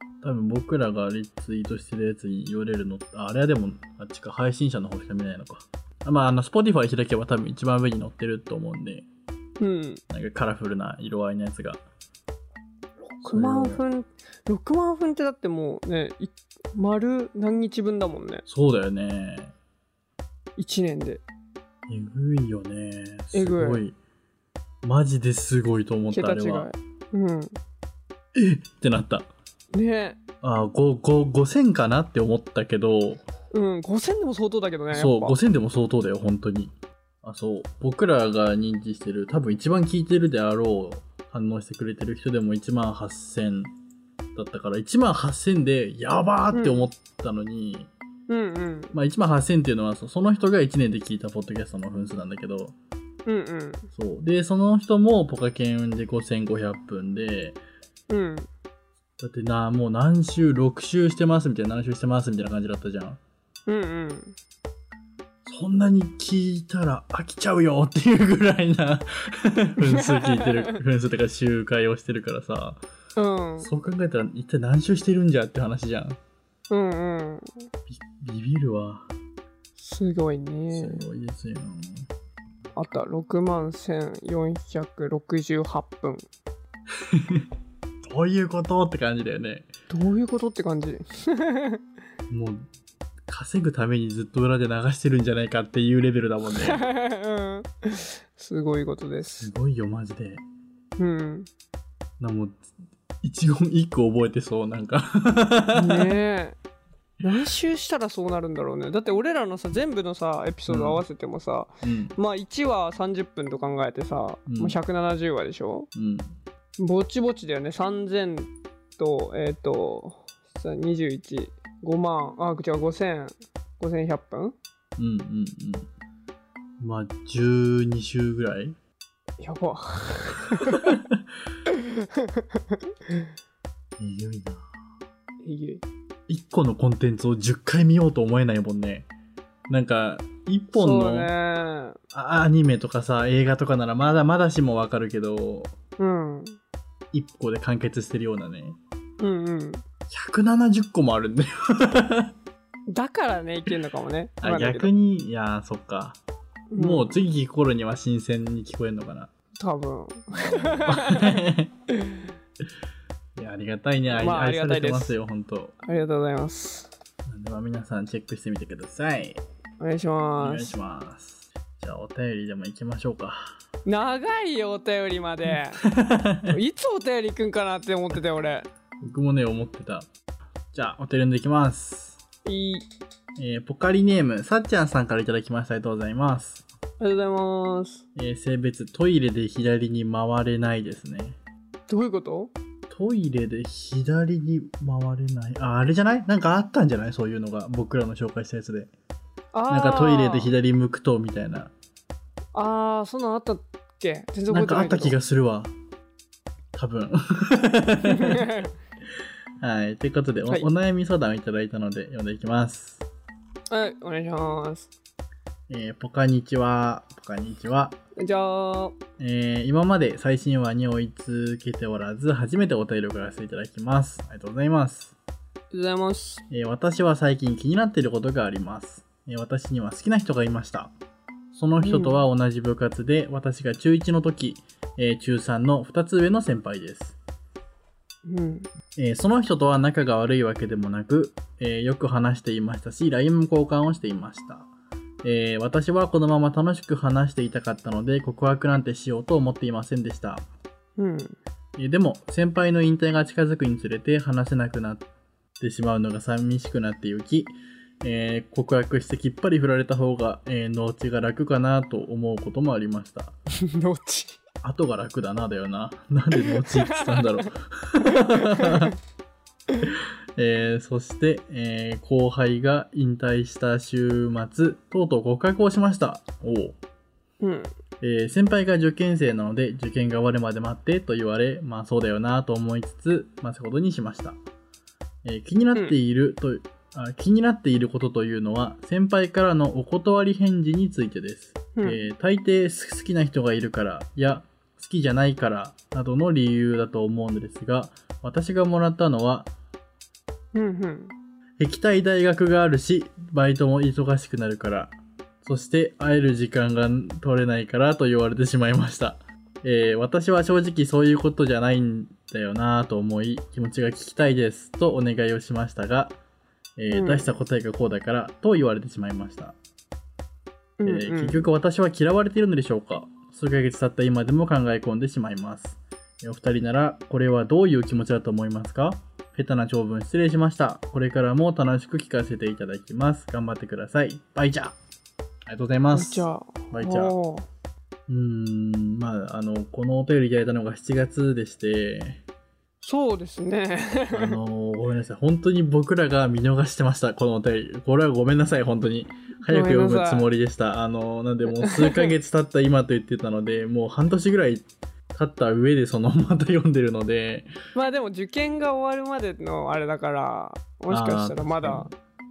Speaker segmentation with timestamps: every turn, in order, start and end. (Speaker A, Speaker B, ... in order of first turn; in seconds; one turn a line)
Speaker A: 0.2-9.1
Speaker B: 9.6-10.0
Speaker A: 10.1-11.8
Speaker B: 13.0-18.4
Speaker A: 13.2-13.8
Speaker A: 18.5-19.5
Speaker B: 20.6-21.2
Speaker A: 21.9-24.0
Speaker B: 23.3-23.8
Speaker A: 24.8-26.7
Speaker B: 26.1-27.6
Speaker A: 28.3-29.3
Speaker B: 29.7-30.2
Speaker A: 30.4-33.2
Speaker B: 33.5-35.4
Speaker A: 34.9-43.7
Speaker A: 44.3-47.9
Speaker B: 46.5-46.9
Speaker B: 48.3-48.9
Speaker A: 48.9-52.7
Speaker B: 53.2-53.9
Speaker A: 53.9-57.6
Speaker B: 58.1-58.5
Speaker A: 59.2-63.2
Speaker B: 63.7-64.3
Speaker A: 65.5-72.8
Speaker B: 69.8-70.8
Speaker B: 73.2-73.7
Speaker A: 73.6-76.2
Speaker B: 76.7-77.5
Speaker A: 77.9-79.1
Speaker B: 79.8-81.0
Speaker A: 80.7-82.1
Speaker B: 82.8-86.2
Speaker A: 87.0-87.5
Speaker A: 88.0-89.7
Speaker B: 89.9-91.8
Speaker A: 92.3-92.7
Speaker A: 93.3-96.8
Speaker B: 96.5-99.5
Speaker A: 99.4-100.4
Speaker B: 101.0-101.5
Speaker A: 102.2-102.6
Speaker A: 103.2-106.2
Speaker B: 105.7-106.5
Speaker B: 107.2-115.9
Speaker A: 110.7-111.0
Speaker A: 111.8-112.1
Speaker A: 114.5-114.8
Speaker A: 115.9-116.3
Speaker B: 116.8-124.5
Speaker A: 125.0-125.9
Speaker A: 126.8-128.8
Speaker B: 129.4-131.0
Speaker A: 130.6-131.2
Speaker B: 131.7-133.3
Speaker A: 134.0-134.7
Speaker B: 135.4-135.8
Speaker A: 136.3-139.1
Speaker A: 139.7-141.3
Speaker B: 140.7-142.0
Speaker A: 142.1-145.7
Speaker B: 146.0-146.6
Speaker A: 147.1-148.8
Speaker B: 149.2-149.8
Speaker A: 150.1-152.3
Speaker B: 152.9-154.9
Speaker A: 154.4-156.2
Speaker B: 156.7-157.1
Speaker A: 156.8-159.3
Speaker B: 159.6-162.3
Speaker A: 160.3-161.7
Speaker A: 163.3-165.7
Speaker B: 164.1-165.2
Speaker B: 165.8-166.9
Speaker A: 167.2-169.4
Speaker B: 169.8-170.7
Speaker A: 170.4-173.6
Speaker B: 173.8-175.8
Speaker A: 175.8-176.6
Speaker B: 176.5-178.7
Speaker A: 179.0-180.1
Speaker A: 180.7-182.2
Speaker B: 182.4-182.8
Speaker A: 183.4-186.6
Speaker B: 187.0-188.0
Speaker A: 188.1-191.4
Speaker B: 191.9-192.5
Speaker A: 192.9-198.9
Speaker B: 199.5-200.5
Speaker A: 199.7-201.7
Speaker B: 202.5-205.2
Speaker A: 204.5-205.7
Speaker A: 206.7-208.5
Speaker B: 208.0-208.7
Speaker A: 209.6-213.0
Speaker B: 213.7-214.9
Speaker A: 215.7-218.0
Speaker B: 218.2-218.9
Speaker A: 219.2-225.2
Speaker B: 225.7-226.4
Speaker A: 226.5-230.9
Speaker A: 231.5-237.2
Speaker B: 231.8-232.2
Speaker B: 238.2-238.7
Speaker A: 238.9-244.7
Speaker A: 245.2-250.4
Speaker B: 251.0-251.4
Speaker A: 251.8-255.1
Speaker A: 255.6-263.4
Speaker B: 263.6-264.4
Speaker A: 264.6-268.9
Speaker B: 266.3-267.4
Speaker B: 268.0-268.9
Speaker A: 269.9-276.8
Speaker B: 277.4-277.7
Speaker A: 278.0-284.4
Speaker A: 285.2-299.5
Speaker B: 291.7-292.0
Speaker B: 300.5-301.1
Speaker A: 301.6-316.2
Speaker A: 316.8-319.6
Speaker B: 316.9-317.3
Speaker B: 320.8-321.5
Speaker A: 320.8-334.8
Speaker A: 335.5-337.1
Speaker B: 335.9-337.5
Speaker A: 338.1-342.2
Speaker B: 342.8-344.4
Speaker A: 344.1-357.5
Speaker B: 349.5-350.3
Speaker B: 351.5-352.1
Speaker B: 357.7-361.9
Speaker A: 360.9-361.9